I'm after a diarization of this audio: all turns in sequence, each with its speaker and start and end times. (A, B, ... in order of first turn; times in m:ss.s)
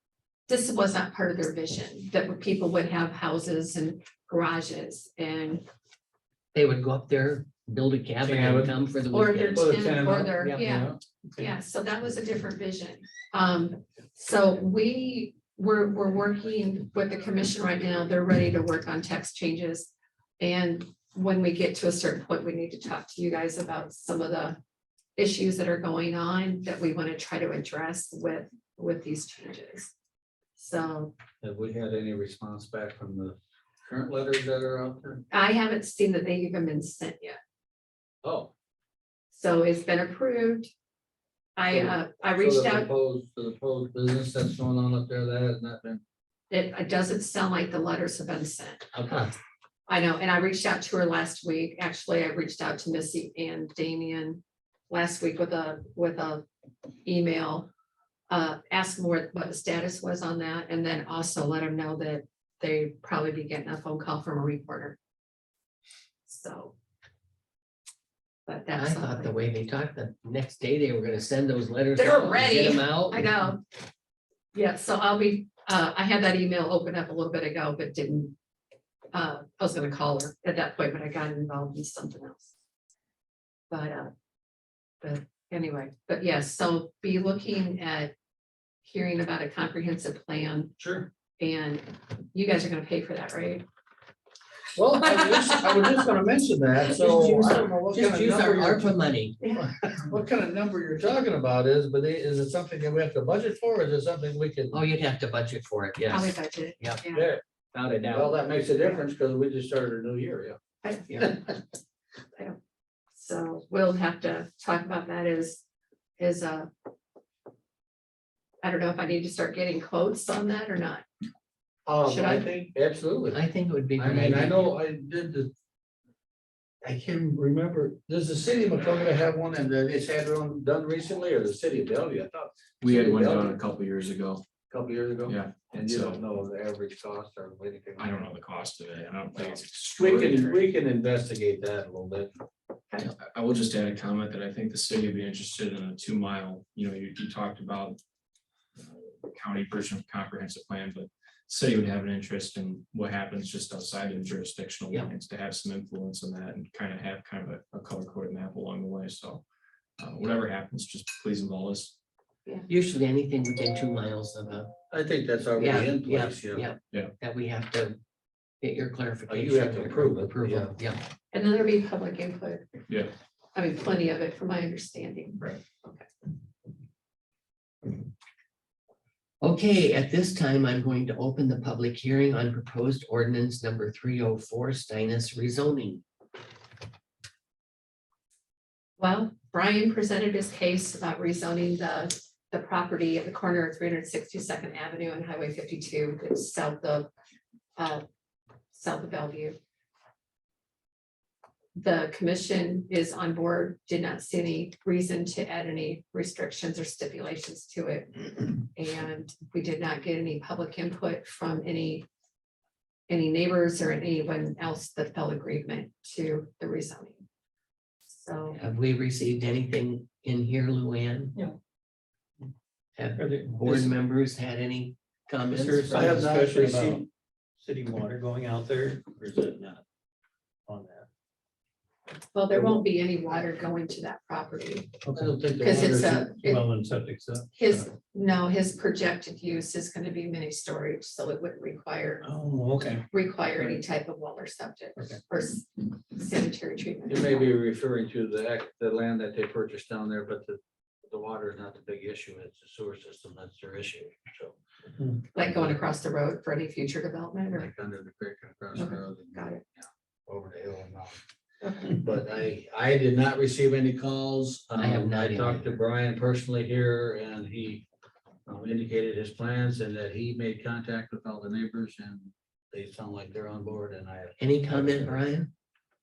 0:00.5-0:05.6 A
0:06.5-0:09.7 B
0:08.2-0:08.7 C
0:09.1-0:24.6 A
0:09.5-0:11.0 C
0:25.2-0:29.9 A
0:30.6-0:31.1 A
0:31.4-0:35.2 C
0:35.3-0:37.4 A
0:38.2-0:38.5 C
0:39.3-0:40.7 A
0:41.6-0:42.9 A
0:41.7-0:46.0 C
0:46.5-0:48.9 A
0:48.9-0:49.3 B
0:49.9-0:56.4 A
0:57.0-0:57.7 A
0:58.3-1:05.0 A
1:06.2-1:06.7 A
1:08.4-1:09.3 A
1:08.7-1:13.3 B
1:12.0-1:13.6 A
1:14.5-1:18.3 A
1:19.1-1:22.5 A
1:23.7-1:24.1 A
1:25.0-1:28.1 A
1:28.8-1:30.7 A
1:30.8-1:31.1 C
1:31.4-1:33.6 A
1:34.7-1:38.9 C
1:35.0-1:36.0 A
1:37.0-1:39.4 B
1:39.6-1:44.8 C
1:44.7-1:47.0 B
1:46.1-1:47.3 A
1:47.1-1:50.6 C
1:50.8-1:51.4 A
1:53.1-1:55.6 A
1:56.2-1:56.7 A
1:58.6-2:01.0 A
2:01.8-2:03.4 C
2:02.0-2:02.5 A
2:03.3-2:04.7 B
2:04.0-2:05.5 C
2:06.8-2:13.6 C
2:12.8-2:14.4 D
2:14.7-2:18.1 C
2:15.2-2:16.2 D
2:18.0-2:20.7 D
2:19.4-2:22.3 C
2:23.0-2:28.0 D
2:28.8-2:39.4 D
2:40.0-2:42.0 D
2:42.7-2:44.7 B
2:44.9-2:46.6 C
2:45.5-2:48.0 B
2:48.6-2:51.0 B
2:49.3-2:50.7 C
2:51.3-2:52.7 A
2:53.5-2:56.0 A
2:59.4-3:06.0 B
3:09.0-3:17.1 A
3:17.8-3:18.0 A
3:18.7-3:19.6 A
3:21.7-3:32.0 A
3:33.1-3:37.2 A
3:38.0-3:38.6 A
3:38.6-3:41.3 B
3:43.0-3:46.0 B
3:43.2-3:43.9 E
3:45.5-3:47.0 E
3:45.8-3:47.0 C
3:47.6-3:49.8 E
3:50.7-3:51.1 E
3:52.3-3:54.9 A
3:55.0-3:55.3 E
3:55.1-3:56.3 C
3:55.6-3:56.7 A
3:56.3-3:57.8 E
3:57.5-4:02.2 A
4:02.2-4:03.0 E
4:03.1-4:07.5 A
4:07.1-4:14.6 C
4:15.0-4:15.2 E
4:15.3-4:17.7 A
4:17.5-4:21.2 C
4:18.7-4:19.6 A
4:21.6-4:22.0 A
4:21.9-4:27.8 C
4:24.7-4:25.7 B
4:28.4-4:35.2 C
4:34.4-4:35.5 B